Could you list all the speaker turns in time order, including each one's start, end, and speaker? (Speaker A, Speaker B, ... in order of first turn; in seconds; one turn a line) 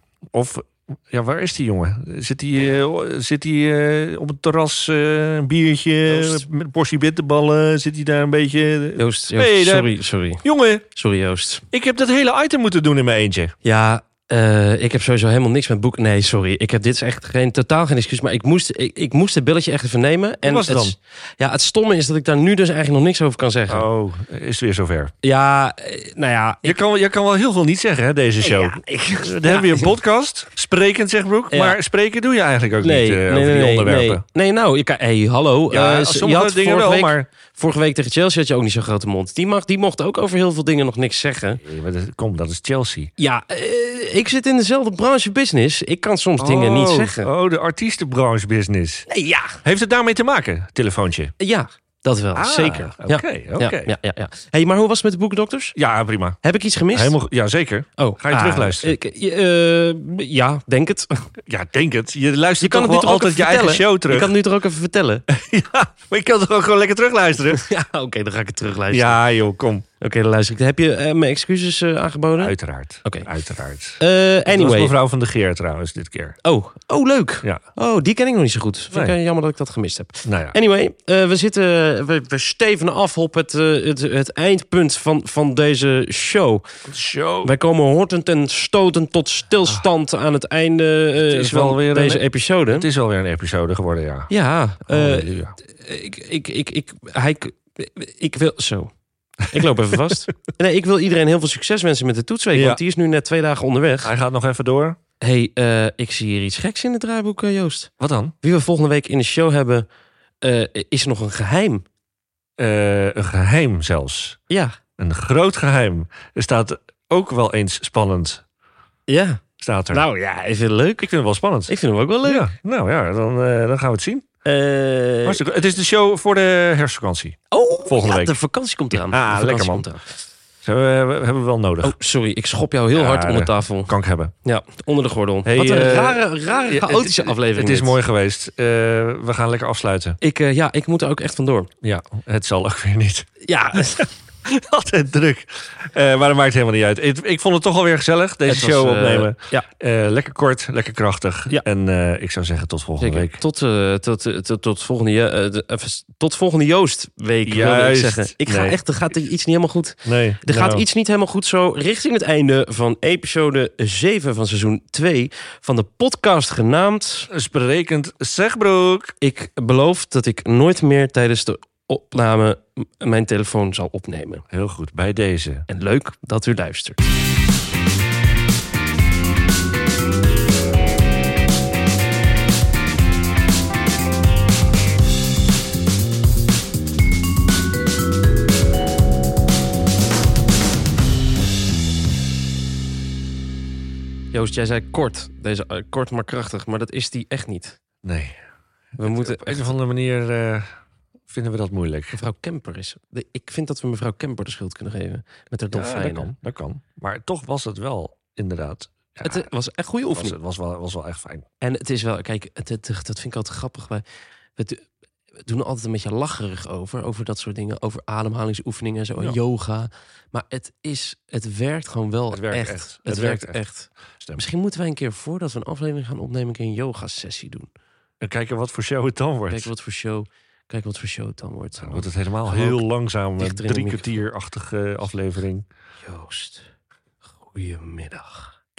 Speaker A: 0.3-10.9
Speaker B: 6.1-6.4
Speaker B: 9.0-11.6
Speaker A: 11.7-13.5
Speaker B: 13.6-23.9
Speaker A: 20.4-20.9
Speaker A: 23.7-25.1
Speaker B: 25.2-26.8
Speaker A: 26.6-34.2
Speaker B: 28.4-29.9
Speaker B: 31.5-31.8
Speaker B: 32.8-41.6
Speaker A: 35.7-37.3
Speaker A: 41.6-43.1
Speaker B: 43.2-47.3
Speaker A: 46.4-51.3
Speaker B: 49.1-49.6
Speaker B: 51.4-55.8
Speaker A: 52.4-54.0
Speaker A: 55.7-59.0
Speaker B: 56.4-57.2
Speaker B: 58.0-61.3
Speaker A: 61.5-64.3
Speaker B: 62.6-65.2
Speaker A: 65.3-67.7
Speaker B: 67.5-69.2
Speaker A: 68.9-69.8
Speaker B: 70.0-73.3
Speaker A: 72.4-76.4
Speaker B: 74.0-74.9
Speaker B: 76.4-86.7
Speaker A: 80.2-80.5
Speaker A: 86.9-87.5
Speaker B: 87.4-92.9
Speaker A: 91.2-94.3
Speaker B: 94.3-98.9
Speaker A: 94.8-95.5
Speaker B: 99.5-104.1
Speaker A: 102.5-102.8
Speaker A: 104.0-105.0
Speaker B: 105.2-109.9
Speaker A: 108.0-108.3
Speaker B: 110.4-111.8
Speaker A: 112.6-114.4
Speaker B: 114.5-114.8
Speaker A: 115.0-118.4
Speaker B: 119.1-121.1
Speaker A: 119.6-120.0
Speaker A: 121.0-124.3
Speaker B: 121.7-122.5
Speaker B: 124.4-125.4
Speaker A: 125.2-129.9
Speaker B: 127.5-130.2
Speaker A: 130.6-132.0
Speaker B: 131.8-138.0
Speaker A: 132.9-134.3
Speaker A: 135.4-140.2
Speaker B: 140.2-141.7
Speaker A: 141.8-153.4
Speaker B: 143.4-144.1
Speaker B: 148.5-149.7
Speaker B: 153.0-167.3
Speaker A: 157.4-159.2
Speaker A: 160.0-160.8
Speaker A: 167.3-169.1
Speaker B: 169.2-174.4
Speaker A: 174.5-175.7
Speaker B: 175.7-177.1
Speaker B: 194.3-197.8
Speaker A: 198.0-198.4
Speaker B: 199.0-199.8
Speaker A: 199.0-200.7
Speaker A: 201.3-202.2
Speaker B: 202.1-206.3
Speaker A: 205.7-211.4
Speaker B: 209.2-210.4
Speaker B: 211.6-214.0
Speaker B: 214.6-214.9
Speaker B: 215.4-227.7
Speaker A: 222.3-224.4
Speaker A: 228.2-229.7
Speaker B: 229.5-232.8
Speaker A: 231.8-235.6
Speaker B: 233.4-234.2
Speaker B: 236.0-236.7
Speaker B: 237.4-238.5